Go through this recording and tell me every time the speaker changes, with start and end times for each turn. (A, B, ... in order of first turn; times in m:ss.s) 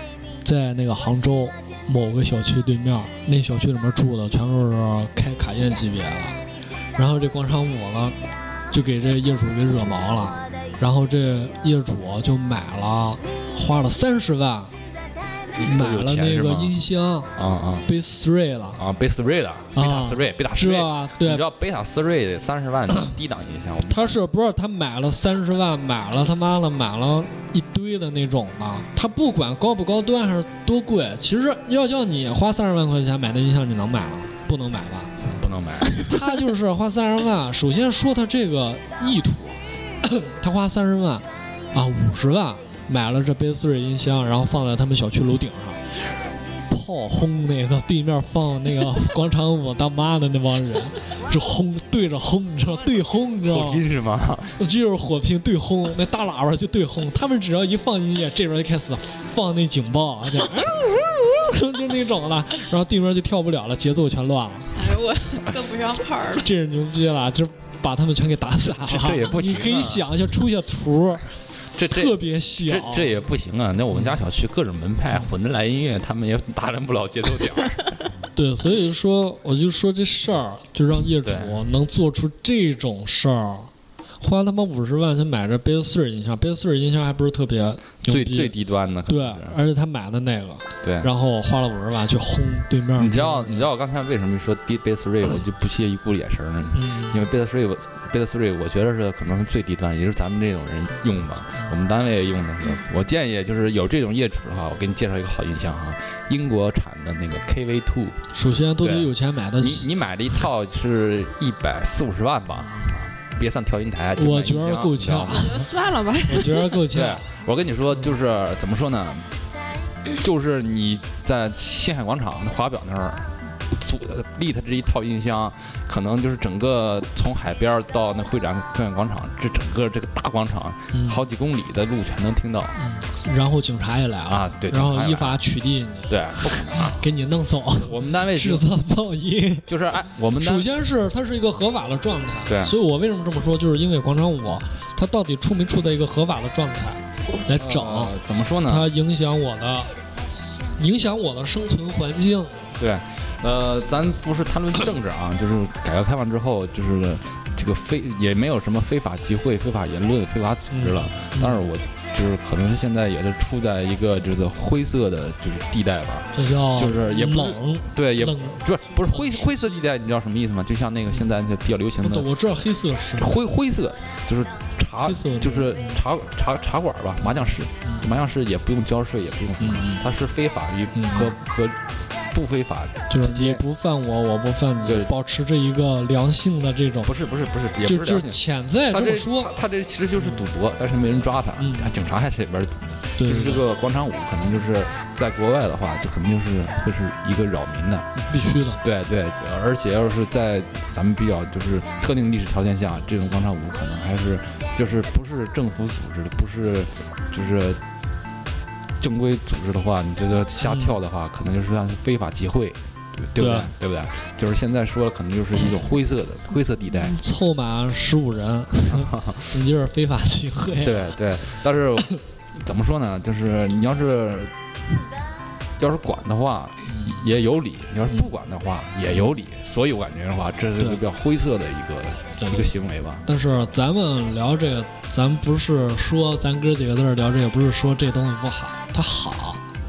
0:00.4-0:06.4 A
0:07.0-0:08.2 A
0:08.7-0:14.7 A
0:15.6-0:16.8 B
0:15.6-0:17.3 A
0:17.3-0:17.9 B
0:17.8-0:18.8 A
0:18.8-0:24.2 B
0:19.8-0:21.4 A
0:23.9-0:35.4 A
0:35.3-0:36.2 B
0:36.0-0:45.9 A
0:46.7-0:53.8 A
0:52.7-0:53.0 C
0:53.4-0:54.6 B
0:54.6-1:04.8 A
1:04.7-1:06.5 C
1:06.4-1:11.4 A
1:08.7-1:10.1 B
1:11.7-1:17.9 B
1:11.9-1:13.2 A
1:13.9-1:14.2 A
1:18.3-1:28.5 A
1:21.2-1:21.6 B
1:28.0-1:29.6 B
1:29.0-1:33.7 A
1:30.8-1:31.1 B
1:33.0-1:48.2 B
1:36.7-1:37.2 A
1:48.3-1:49.9 A
1:48.8-1:55.5 B
1:52.6-1:52.9 A
1:54.2-1:55.7 A
1:55.3-1:56.8 C
1:56.3-1:57.3 A
1:56.9-1:59.3 B
2:00.1-2:12.8 B
2:10.9-2:11.2 A
2:12.8-2:19.7 A
2:14.3-2:15.4 B
2:16.1-2:17.0 B
2:17.7-2:18.7 B
2:19.7-2:20.7 B
2:20.4-2:29.9 A
2:22.4-2:22.8 B
2:27.5-2:28.9 B
2:30.8-2:32.7 A
2:32.8-2:52.3 B
2:40.7-2:41.6 A
2:46.3-2:49.8 A
2:52.0-2:53.4 A
2:53.2-3:03.6 B
2:55.0-2:56.0 A
2:57.8-2:58.1 A
2:59.6-3:00.0 A
3:00.9-3:01.3 A
3:03.1-3:07.1 A
3:04.8-3:05.1 B
3:07.0-3:18.1 B
3:07.8-3:09.6 A
3:10.2-3:10.4 A
3:11.6-3:12.0 A
3:13.2-3:13.6 A
3:18.2-3:18.8 A
3:18.8-3:27.8 B
3:29.0-3:37.2 B
3:30.6-3:31.0 A
3:33.4-3:33.7 A
3:37.2-3:41.2 A
3:38.9-3:39.5 B
3:40.8-3:44.5 B
3:45.8-3:53.2 B
3:46.9-3:47.2 A
3:50.8-3:51.0 A
3:52.4-3:52.7 A
3:53.2-3:59.6 A